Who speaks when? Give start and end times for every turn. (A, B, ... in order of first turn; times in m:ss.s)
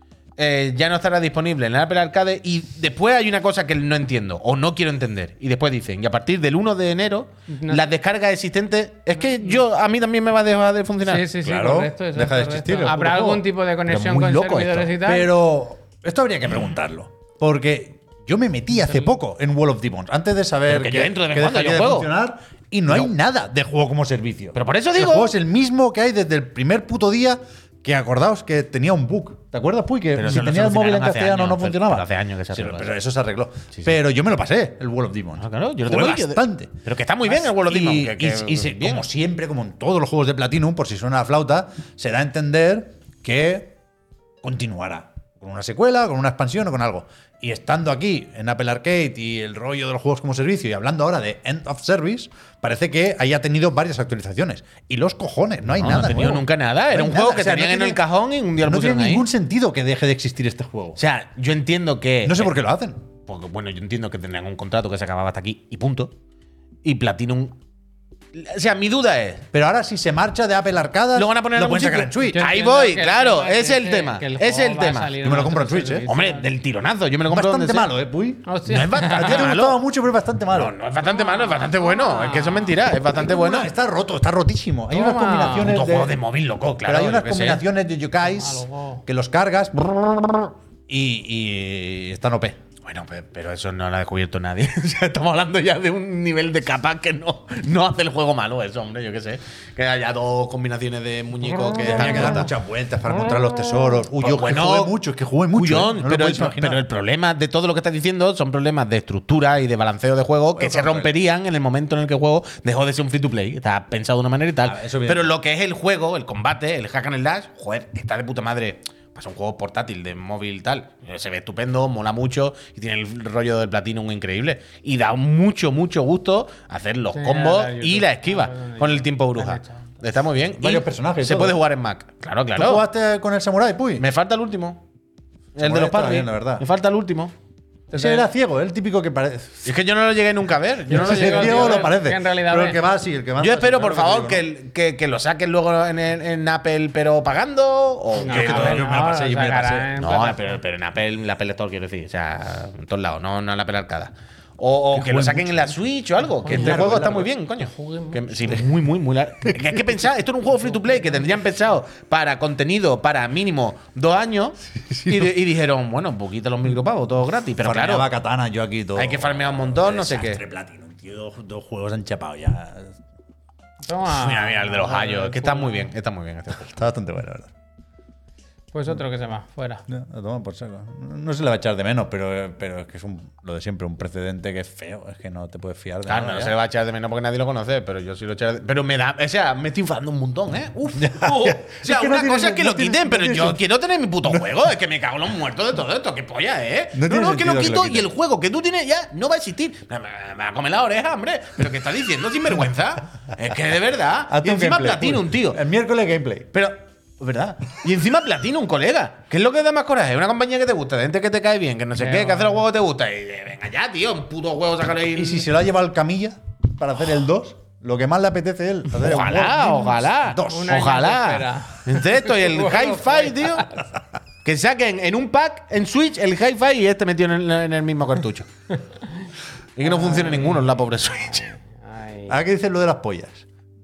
0:00.4-0:11.3 A
0:07.5-0:07.8 B
0:09.2-0:09.6 B
0:11.0-0:15.3 B
0:11.4-0:36.7 C
0:13.9-0:14.8 A
0:20.7-0:22.1 A
0:24.5-0:25.3 A
0:30.2-0:32.9 A
0:35.4-0:39.0 A
0:37.2-0:43.8 C
0:44.4-0:58.0 C
0:55.7-0:59.2 A
0:58.6-1:01.0 C
1:01.0-1:02.5 A
1:02.2-1:03.0 C
1:03.2-1:06.1 A
1:06.8-1:07.6 A
1:08.3-1:09.4 A
1:09.5-1:12.4 C
1:11.1-1:15.1 A
1:12.3-1:16.5 B
1:15.2-1:16.0 C
1:16.1-1:17.9 A
1:17.3-1:20.7 C
1:18.4-1:19.5 B
1:18.7-1:19.8 A
1:20.5-1:23.7 A
1:21.0-1:22.8 B
1:23.1-1:26.2 C
1:24.9-1:25.8 B
1:25.5-1:27.6 A
1:26.8-1:32.6 C
1:28.2-1:29.0 B
1:32.8-1:42.5 A
1:41.7-1:46.8 C
1:44.2-1:44.9 A
1:45.5-2:12.8 A
1:50.5-1:51.1 C
1:54.6-1:55.3 C
2:07.1-2:09.9 B
2:10.6-2:11.6 C
2:12.5-2:14.0 C
2:14.0-2:14.8 A
2:15.6-2:17.3 A
2:15.6-2:16.6 C
2:17.9-2:18.2 B
2:17.9-2:19.7 C
2:19.6-2:21.9 A
2:20.9-2:24.4 C
2:20.9-2:22.8 B
2:23.4-2:28.8 A
2:28.2-2:30.6 B
2:28.2-2:29.9 C
2:30.0-2:48.1 A
2:34.9-2:35.7 C
2:36.4-2:38.6 B
2:36.4-2:37.3 C
2:39.5-2:39.8 C
2:40.8-2:41.2 B
2:44.8-2:45.4 C
2:47.6-2:53.0 C
2:49.0-2:50.4 A
2:53.8-2:55.9 B
2:54.0-2:56.8 A
2:56.6-2:57.5 C
2:58.7-2:59.8 B
2:59.9-3:06.5 C
3:06.1-3:25.6 A
3:11.0-3:13.6 C
3:14.2-3:14.6 C
3:16.9-3:18.1 C
3:24.3-3:26.5 C
3:26.5-3:35.5 A
3:32.0-3:32.6 B
3:35.1-3:40.8 C
3:39.0-3:43.7 A
3:40.4-3:43.9 B
3:44.4-3:48.5 A
3:48.7-3:49.3 B
3:49.8-3:51.5 A
3:49.8-3:50.6 B
3:51.3-3:52.4 B
3:52.3-3:53.4 C